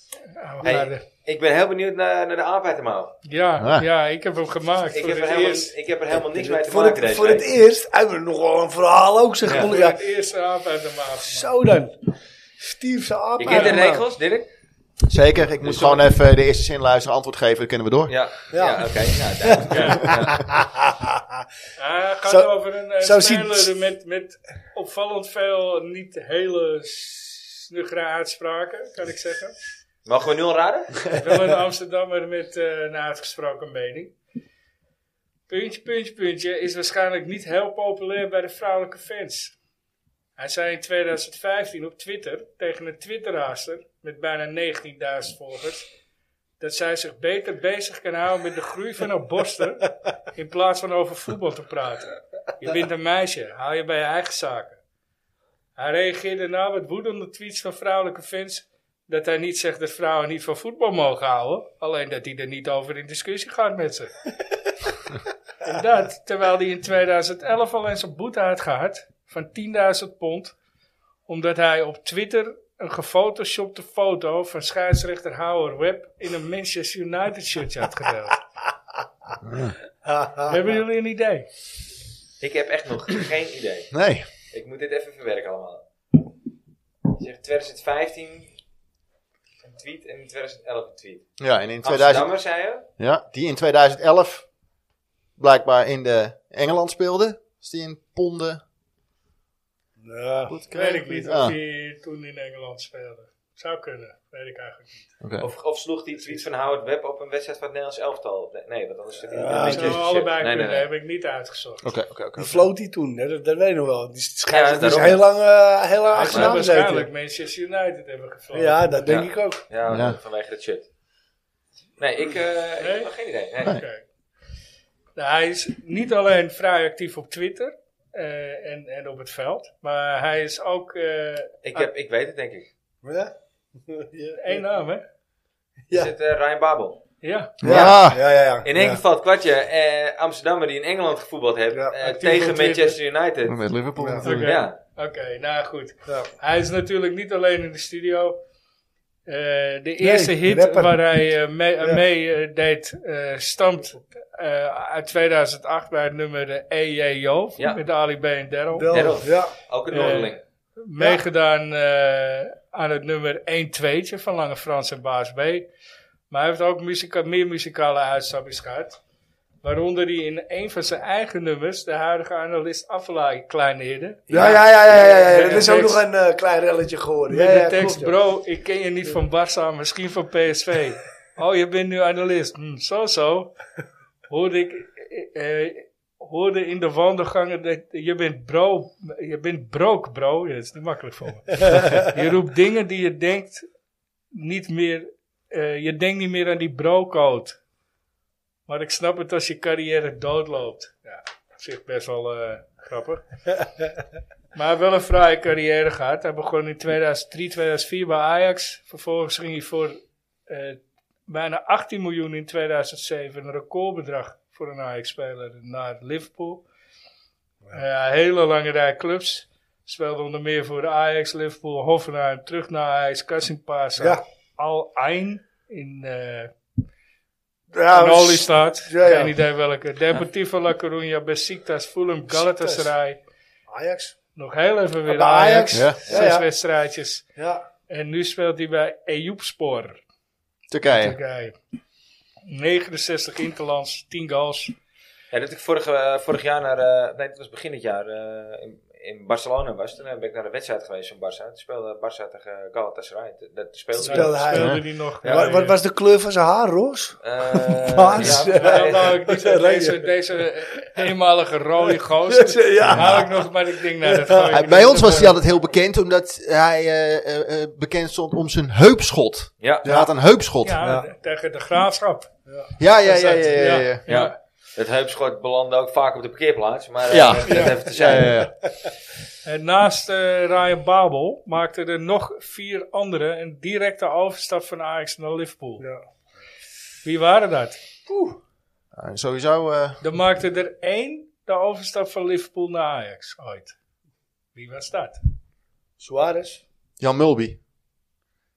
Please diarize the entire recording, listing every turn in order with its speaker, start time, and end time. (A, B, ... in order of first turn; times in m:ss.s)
0:00.2-0:01.0 A
0:00.6-0:03.2 B
0:03.2-0:05.7 A
0:03.6-0:03.9 C
0:04.9-0:07.5 B
0:06.1-0:10.0 D
0:09.4-0:11.5 A
0:11.2-0:12.0 D
0:12.6-0:14.0 D
0:13.4-0:14.5 B
0:15.1-0:18.1 C
0:15.6-0:16.1 B
0:18.1-0:20.5 B
0:18.5-0:21.4 D
0:19.7-0:20.0 A
0:21.8-0:29.6 A
0:23.0-0:23.7 D
0:30.0-0:31.0 B
0:31.1-0:34.1 A
0:35.5-0:39.5 A
0:40.4-0:45.9 A
0:46.6-0:54.8 A
0:55.8-1:04.1 A
1:05.6-1:10.5 A
1:11.3-1:18.4 A
1:19.4-1:19.7 C
1:20.0-1:20.6 D
1:20.4-1:21.5 A
1:22.4-1:23.9 B
1:23.9-1:24.2 C
1:24.5-1:25.8 B
1:27.1-1:28.5 B
1:29.6-1:31.3 B
1:31.4-1:32.3 C
1:31.8-1:32.9 B
1:33.0-1:34.4 C
1:35.4-1:38.6 C
1:40.0-1:41.3 D
1:40.5-1:41.6 C
1:40.7-1:45.0 A
1:45.2-1:45.5 C
1:45.4-1:50.9 B
1:49.3-1:50.0 D
1:49.6-1:51.9 A
1:51.8-1:52.7 C
1:52.4-1:57.1 D
1:54.5-1:55.3 B
1:56.1-1:58.9 A
1:56.2-1:56.6 B
1:58.5-1:59.6 D
1:59.0-2:00.9 B
1:59.9-2:00.2 C
2:02.0-2:03.8 B
2:02.8-2:03.1 A
2:03.6-2:04.0 A
2:05.2-2:11.9 A
2:11.6-2:12.7 B
2:13.0-2:13.3 D
2:13.8-2:14.6 D
2:14.4-2:15.0 A
2:15.9-2:17.0 B
2:17.2-2:17.6 A
2:17.6-2:18.2 C
2:17.6-2:18.0 B
2:17.6-2:19.0 D
2:18.6-2:23.6 B
2:21.7-2:22.7 D
2:23.4-2:24.5 C
2:24.0-2:24.2 D
2:24.2-2:28.4 A
2:24.4-2:24.8 B
2:29.3-2:39.0 A
2:30.0-2:31.0 D
2:38.7-2:39.6 D
2:38.9-2:40.4 B
2:39.9-2:45.6 A
2:46.3-2:49.0 A
2:49.6-2:56.0 A
2:54.3-2:58.1 D
2:57.3-3:03.5 A
3:04.3-3:13.6 A
3:14.3-3:17.6 A
3:18.7-3:23.4 A
3:24.5-3:30.0 A
3:30.5-3:36.6 A
3:37.7-3:46.5 A
3:47.7-3:49.3 D
3:47.9-3:53.2 A
3:52.3-3:52.9 D
3:53.7-3:54.2 D
3:54.3-3:57.2 A
3:55.1-3:56.5 D
3:55.7-3:56.0 C
3:57.4-3:57.6 D
3:57.9-4:00.0 A
4:00.7-4:01.2 C
4:00.9-4:01.6 A
4:02.4-4:04.7 A
4:05.3-4:14.6 B
4:14.0-4:15.8 A
4:14.0-4:20.1 D
4:14.6-4:14.8 C
4:15.2-4:15.5 B
4:17.2-4:19.2 B
4:18.6-4:25.4 A
4:21.8-4:23.5 D
4:22.8-4:23.2 C
4:24.0-4:25.2 D
4:24.5-4:30.9 C
4:29.6-4:29.9 B
4:30.6-4:32.3 A
4:32.8-4:34.0 C
4:33.0-4:34.4 A
4:34.1-4:38.4 B
4:37.1-4:38.5 C
4:37.5-4:38.2 D
4:39.4-4:45.8 A
4:47.0-4:47.8 A
4:48.1-4:48.4 D
4:48.9-4:50.0 C
4:50.0-4:53.7 A
4:54.5-4:55.2 A
4:56.0-4:56.6 D
4:57.0-4:57.6 C